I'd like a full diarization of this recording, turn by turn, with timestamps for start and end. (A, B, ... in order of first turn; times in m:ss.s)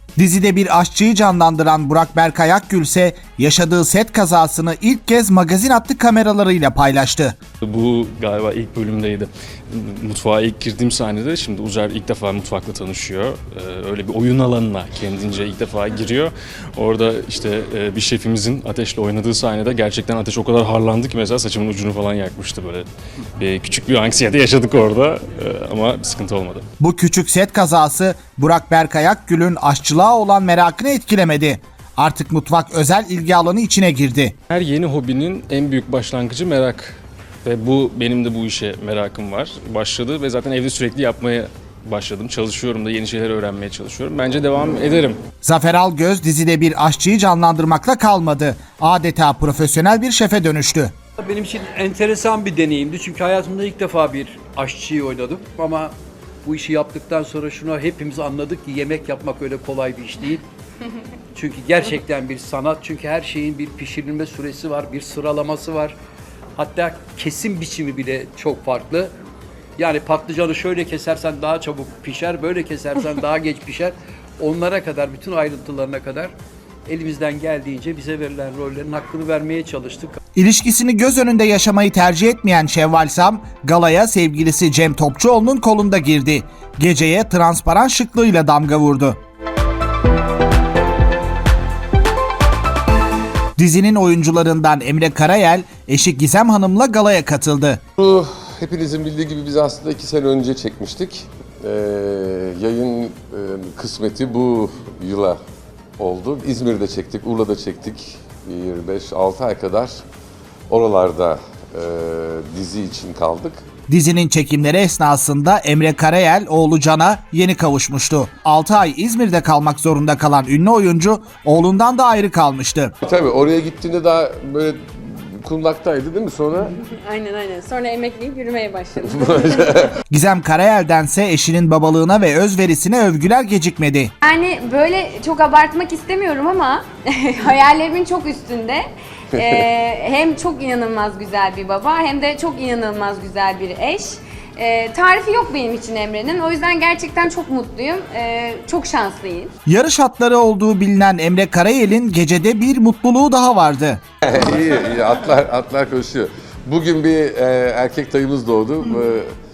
0:00.2-0:07.4 A
0:07.6-0:22.9 B
0:23.4-0:26.6 B
0:26.8-0:34.3 A
0:34.5-0:45.2 B
0:45.4-0:50.9 A
0:51.2-0:55.9 C
0:56.4-1:00.4 C
1:01.3-1:05.9 C
1:06.6-1:09.1 C
1:09.8-1:16.3 C
1:16.8-1:20.2 C
1:20.4-1:29.2 A
1:33.6-1:37.8 A
1:38.0-1:45.4 D
1:46.0-1:50.0 D
1:50.7-1:53.6 D
1:53.9-2:02.9 A
2:03.0-2:06.7 D
2:06.8-2:09.7 E
2:09.0-2:09.9 D
2:10.1-2:14.1 A
2:14.2-2:29.5 E
2:19.4-2:19.6 D
2:29.6-2:34.0 A
2:34.2-2:39.3 D